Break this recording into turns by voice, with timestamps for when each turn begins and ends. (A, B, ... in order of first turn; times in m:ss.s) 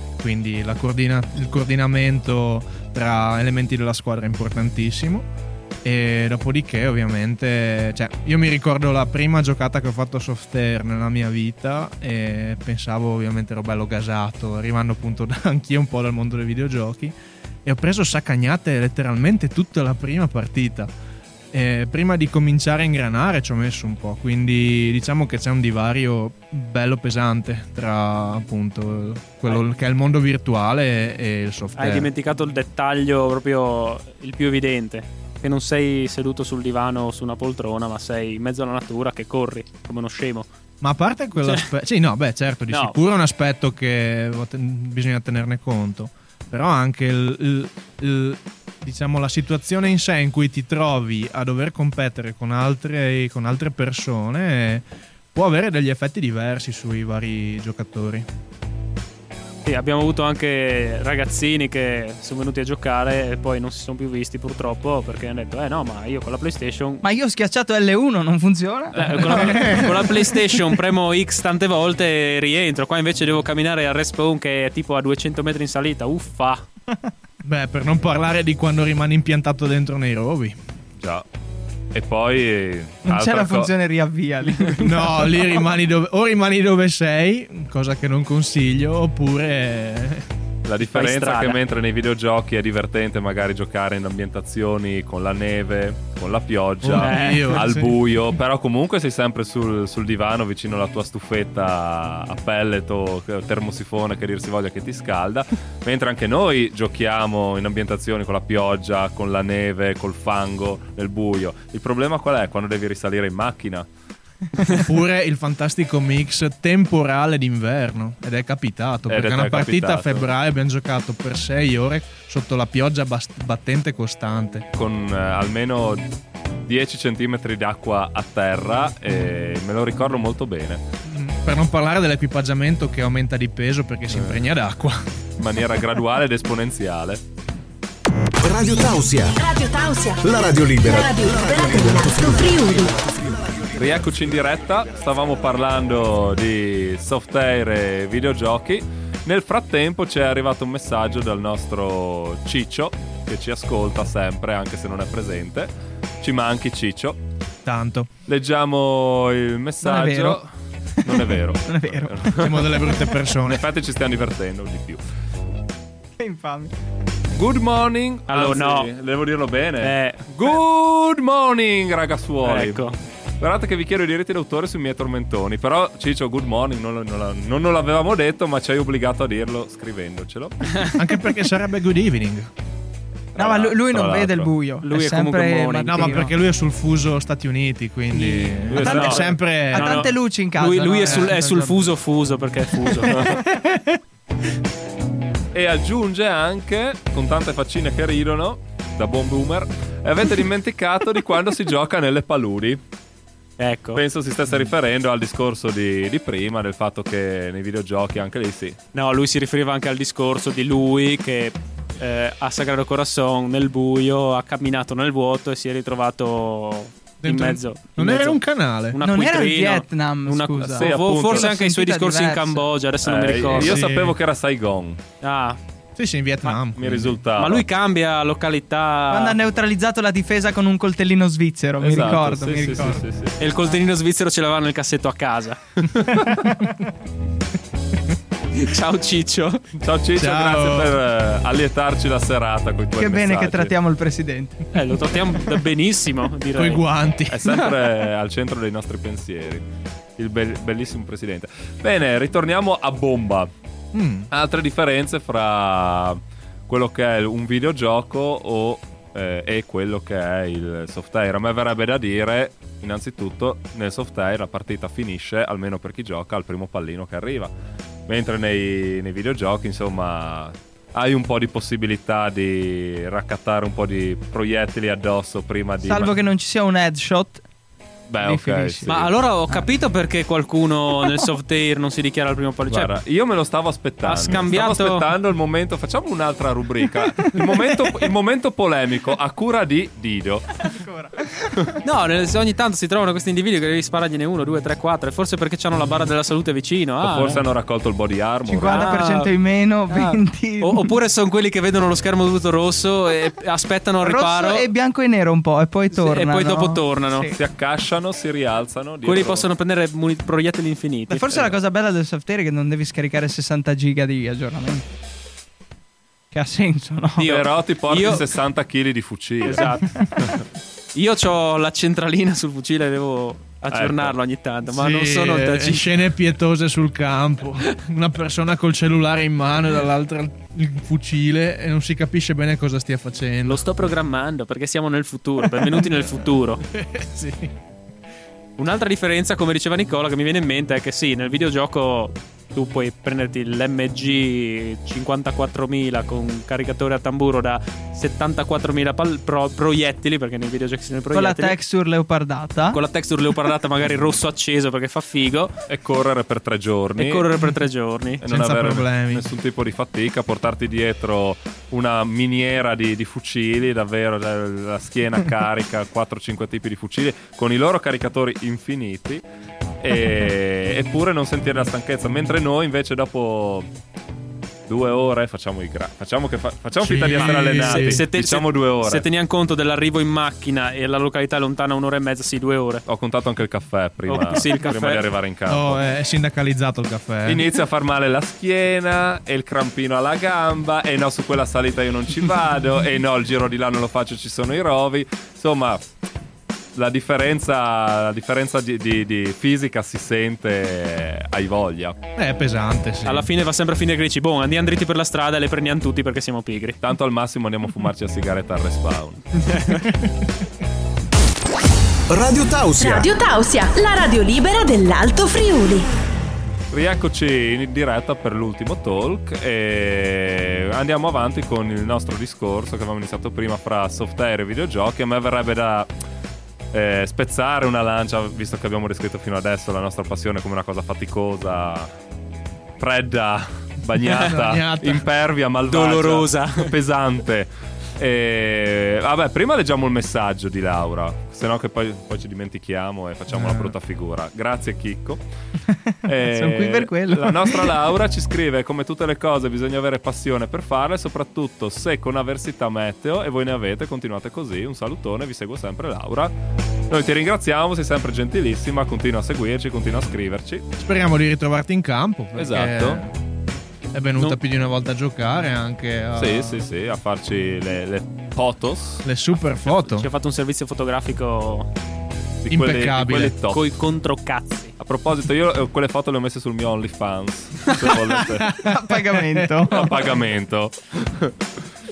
0:00.2-0:05.3 A
0:05.8-0:20.9 A
0:21.5-0:32.1 A
0:31.7-0:40.5 B
0:40.8-0:58.3 A
0:41.4-0:41.7 B
0:42.7-0:43.0 B
0:59.6-1:07.0 B
1:07.0-1:10.2 C
1:08.9-1:09.8 D
1:09.0-1:16.6 B
1:09.4-1:09.9 A
1:17.4-1:20.6 A
1:21.0-1:21.2 D
1:21.9-1:23.7 D
1:23.0-1:25.6 C
1:24.8-1:30.3 A
1:30.6-1:53.9 D
1:30.8-1:31.6 B
1:36.8-1:38.2 A
1:36.9-1:37.6 B
1:54.7-2:04.6 A
1:59.1-2:00.3 D
2:04.8-2:06.1 D
2:06.6-2:10.8 D
2:11.0-2:15.0 A
2:14.1-2:14.4 D
2:15.4-2:17.2 D
2:18.4-2:19.4 E
2:19.4-2:23.0 F
2:20.2-2:22.8 E
2:23.7-2:35.7 D
2:36.2-2:37.2 D
2:37.6-2:38.1 A
2:38.3-2:40.5 D
2:39.8-2:40.4 C
2:41.0-2:45.0 D
2:41.7-2:42.2 C
2:42.3-2:43.6 A
2:46.2-2:46.7 C
2:47.3-2:52.9 D
2:48.3-2:48.9 B
2:49.8-2:50.6 B
2:52.4-2:53.0 B
2:53.4-3:00.9 D
3:01.0-3:02.5 A
3:03.3-3:04.5 D
3:03.4-3:06.3 C
3:04.8-3:06.3 B
3:05.9-3:10.1 A
3:08.1-3:11.9 C
3:08.7-3:09.4 D
3:08.8-3:13.3 B
3:11.0-3:11.4 A
3:12.9-3:14.0 C
3:13.1-3:13.4 D
3:15.5-3:22.8 D
3:23.6-3:24.0 B
3:24.0-3:28.8 D
3:28.9-3:43.8 B
3:37.2-3:39.0 A
3:39.0-3:42.7 C
3:40.6-3:41.5 D
3:43.0-3:45.0 D
3:43.5-3:44.2 A
3:45.2-3:45.6 B
3:46.0-3:47.2 A
3:46.8-3:47.6 D
3:47.4-3:49.4 B
3:49.1-3:53.0 C
3:51.8-3:53.6 D
3:53.4-3:55.6 B
3:56.0-3:56.2 D
3:56.3-3:56.6 C
3:58.5-3:59.7 B
3:59.8-4:03.7 D
4:00.2-4:01.0 A
4:03.0-4:04.6 C
4:04.7-4:06.9 B
4:06.5-4:07.5 A
4:07.3-4:09.6 D
4:10.2-4:13.5 D
4:13.9-4:14.3 A
4:14.3-4:27.5 D
4:28.1-4:36.1 D
4:35.8-4:37.4 C
4:38.1-4:39.1 D
4:38.2-4:39.6 C
4:38.9-4:42.9 B
4:42.7-4:50.7 D
4:44.0-4:45.0 B
4:50.7-4:51.6 C
4:51.8-4:57.4 B
4:57.0-4:59.0 D
4:58.5-5:00.9 C
4:58.6-4:59.3 B
4:59.9-5:04.7 B
5:04.0-5:07.3 C
5:05.9-5:07.3 B
5:07.3-5:09.5 D
5:09.0-5:11.5 B
5:11.1-5:14.9 C
5:16.3-5:17.4 C
5:17.2-5:20.4 D
5:17.3-5:18.2 B
5:19.4-5:20.1 B
5:20.9-5:26.0 B
5:23.7-5:24.1 D
5:24.7-5:33.6 A
5:33.4-5:36.6 B
5:35.6-5:36.0 A
5:36.6-5:37.5 A
5:38.6-5:51.6 B
5:51.1-5:52.8 C
5:52.7-5:55.5 B
5:55.7-5:57.3 D
5:57.0-5:58.2 B
5:58.2-6:09.2 D
5:58.2-5:59.3 A
6:09.8-6:13.7 D
6:14.7-6:19.0 D
6:16.8-6:18.0 A
6:17.1-6:22.8 B
6:22.9-6:25.8 D
6:24.1-6:25.0 B
6:25.5-6:27.4 A
6:27.2-6:35.8 D
6:36.7-6:42.0 D
6:42.2-6:43.3 A
6:43.0-6:46.8 B
6:46.8-6:49.5 D
6:49.4-6:49.9 B
6:52.1-6:53.1 E
6:52.8-6:55.9 F
6:56.7-7:05.9 D
7:06.7-7:11.9 D
7:12.8-7:25.2 D
7:14.1-7:14.3 B
7:14.1-7:15.1 A
7:15.7-7:16.7 B
7:23.3-7:23.7 A
7:25.7-7:27.8 C
7:26.0-7:36.3 D
7:36.9-7:40.6 D
7:40.8-7:43.2 A
7:42.4-7:43.0 D
7:43.9-7:46.6 A
7:46.2-7:49.1 D
7:49.0-7:50.1 A
7:49.8-7:51.7 B
7:52.4-7:53.7 D
7:52.5-7:53.3 A
7:53.3-7:54.7 B
7:54.8-7:58.7 D
7:58.1-7:59.9 A
7:58.6-8:00.1 C
7:59.7-8:01.4 D